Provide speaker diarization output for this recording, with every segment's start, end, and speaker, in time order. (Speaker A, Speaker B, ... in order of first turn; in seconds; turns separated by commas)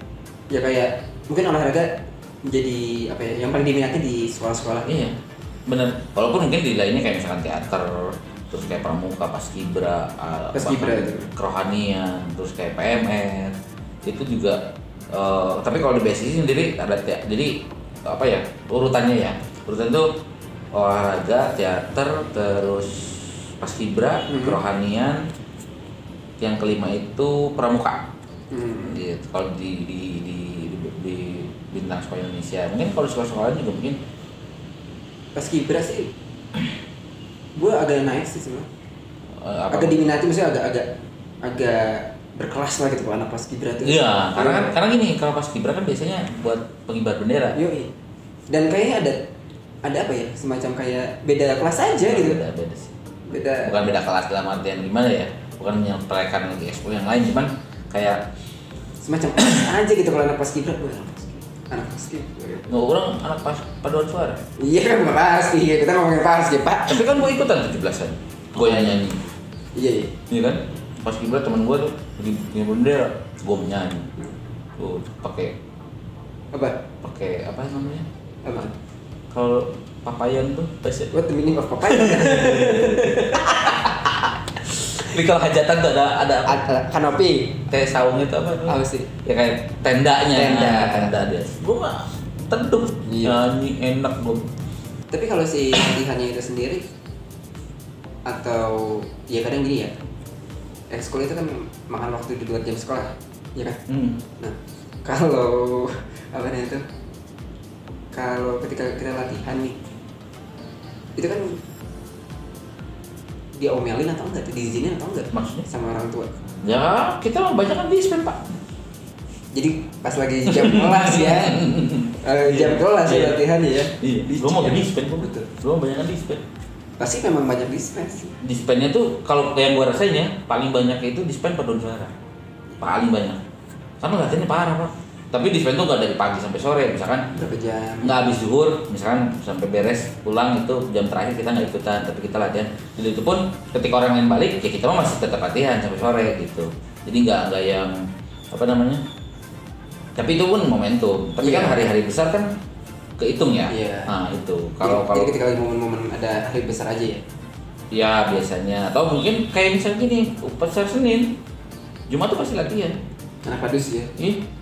Speaker A: 0.5-4.9, Speaker B: 4.9-5.2, Speaker B: 5.7-14.6, Speaker A: 10.5-11.3, Speaker B: 15.1-17.5, Speaker B: 18.1-20.2, Speaker B: 20.7-25.2, Speaker A: 24.3-24.6, Speaker B: 26.4-28.1, Speaker A: 28.5-29.0, Speaker B: 28.8-34.0, Speaker A: 35.4-36.1, Speaker A: 37.6-38.7, Speaker B: 39.3-40.1, Speaker A: 39.7-44.8, Speaker B: 43.8-47.6, Speaker A: 47.5-47.9, Speaker A: 48.5-49.2, Speaker A: 49.8-52.4, Speaker B: 52.0-53.0, Speaker A: 53.3-53.9, Speaker B: 53.6-58.2, Speaker A: 59.0-62.7, Speaker B: 62.7-64.4, Speaker A: 64.6-67.2, Speaker B: 66.9-69.2, Speaker A: 68.6-69.0, Speaker A: 69.8-70.2, Speaker B: 70.3-74.1, Speaker B: 74.8-75.6, Speaker A: 76.5-76.8, Speaker B: 77.0-78.1, Speaker A: 78.5-78.7, Speaker B: 79.3-81.1, Speaker A: 81.1-83.8, Speaker B: 81.8-86.6, Speaker A: 86.5-87.7, Speaker B: 87.7-94.5, Speaker A: 88.7-89.1, Speaker A: 90.3-91.1, Speaker A: 93.1-93.4, Speaker A: 95.1-96.8, Speaker A: 98.3-100.0, Speaker A: 100.9-103.8, Speaker B: 103.9-104.2, Speaker A: 104.4-106.9, Speaker A: 108.1-109.8, Speaker A: 111.2-111.6, Speaker A: 113.6-116.3, Speaker B: 115.3-115.7, Speaker B: 116.6-118.6, Speaker A: 119.5-125.5, Speaker B: 120.5-126.4, Speaker A: 127.0-128.4, Speaker B: 128.4-132.2, Speaker B: 132.8-133.4, Speaker B: 134.0-137.3, Speaker A: 137.3-138.2, Speaker B: 138.0-148.0, Speaker B: 148.5-149.0, Speaker B: 150.2-152.5, Speaker A: 151.4-151.8, Speaker B: 153.2-155.4, Speaker A: 153.7-154.1, Speaker A: 154.8-157.2, Speaker B: 157.9-161.3, Speaker B: 162.1-163.0, Speaker A: 163.4-164.1, Speaker B: 164.2-164.4